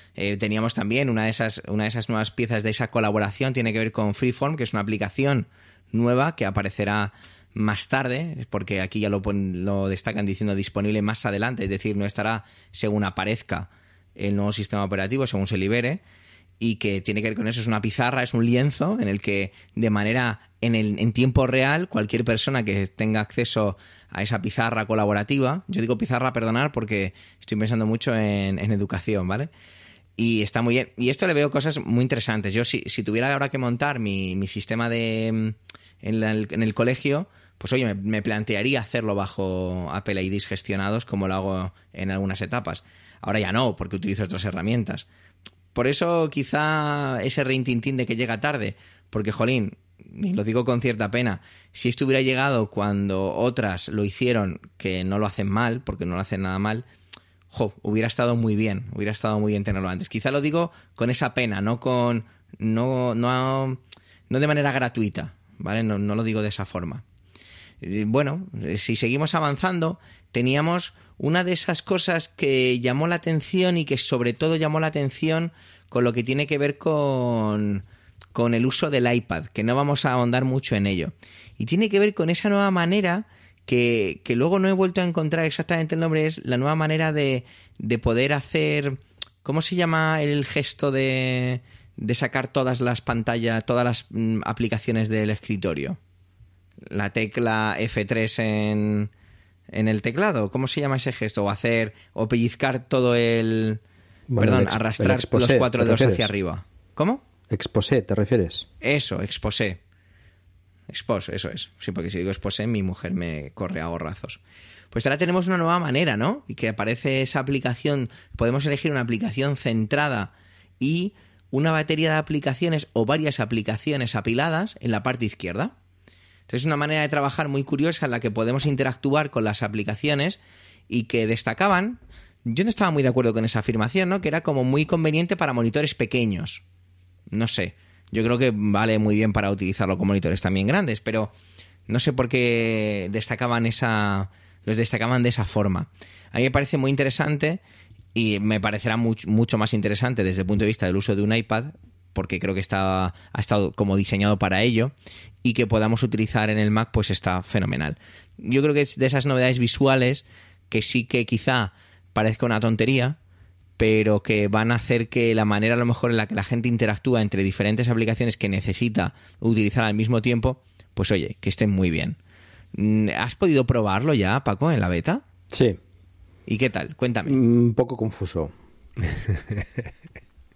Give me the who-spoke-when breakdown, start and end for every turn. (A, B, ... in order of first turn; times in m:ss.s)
0:00.2-0:16.0 A
0:16.6-0:29.5 A
0:30.2-0:45.1 A
0:45.8-0:56.9 A
0:57.5-1:07.0 A
1:07.8-1:36.0 A
1:36.9-1:39.1 A
1:39.7-1:43.8 A
1:44.3-1:46.3 B
1:44.4-1:47.2 A
1:47.5-1:48.7 B
1:48.8-1:49.8 A
1:50.9-1:54.4 A
1:54.9-2:05.7 A
2:06.5-2:16.6 A
2:17.3-2:21.3 A
2:21.9-2:27.6 A
2:28.2-2:43.2 A
2:43.8-2:52.2 A
2:52.7-2:55.2 A
2:55.5-2:55.8 B
2:56.5-2:57.4 A
2:57.3-2:58.5 B